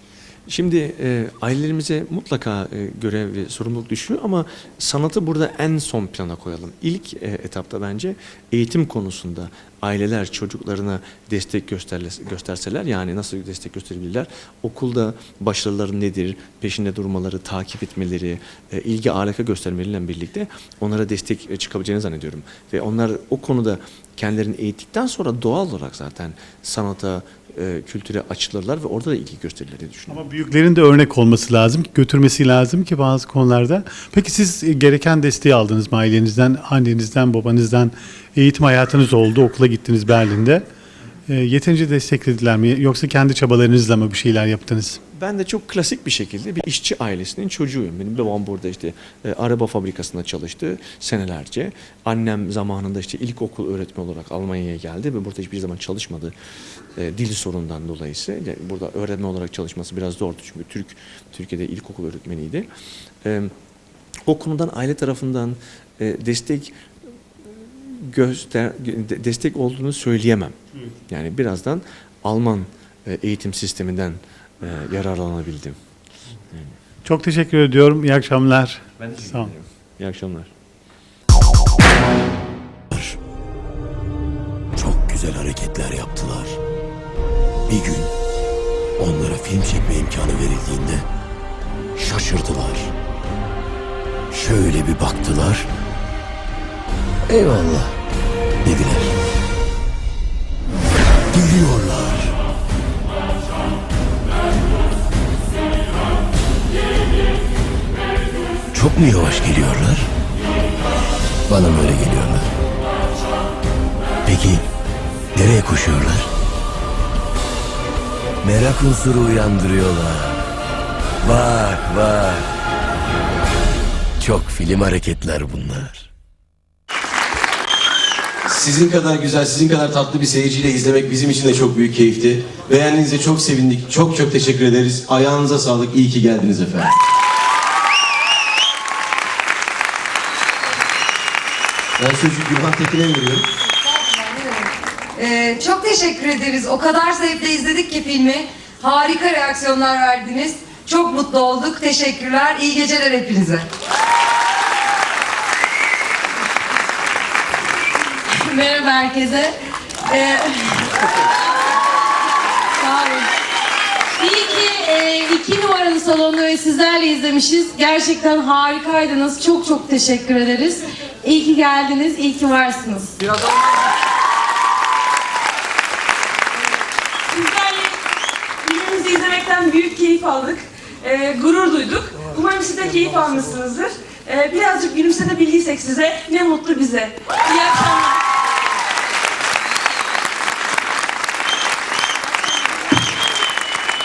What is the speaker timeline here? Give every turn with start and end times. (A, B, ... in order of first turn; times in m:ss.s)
0:00.5-0:30.2 A
0:30.1-0:40.6 B
0:41.3-0:45.0 B
0:45.2-0:56.3 A
0:57.0-1:02.7 A
1:03.2-1:03.5 A
1:04.3-1:06.7 A
1:07.4-1:10.6 A
1:11.1-1:15.8 A
1:17.0-1:19.5 B
1:19.1-1:20.5 A
1:22.9-1:23.2 C
1:24.8-1:26.6 C
1:27.7-1:28.1 C
1:29.0-1:31.0 C
1:32.0-1:32.9 C
1:34.3-1:35.7 C
1:37.3-1:37.9 C
1:38.6-1:39.2 C
1:41.3-1:42.3 C
1:48.7-1:50.1 C
1:51.5-1:52.5 C
1:54.3-1:54.6 C
1:55.4-1:56.3 C
1:58.4-2:00.4 C
2:01.2-2:02.5 C
2:04.2-2:06.1 C
2:08.5-2:16.9 D
2:22.0-2:23.4 D
2:24.1-2:24.5 E
2:25.3-2:33.5 E
2:38.5-2:39.5 F
2:44.2-2:53.1 F
2:57.3-2:57.9 G
2:58.6-3:08.0 G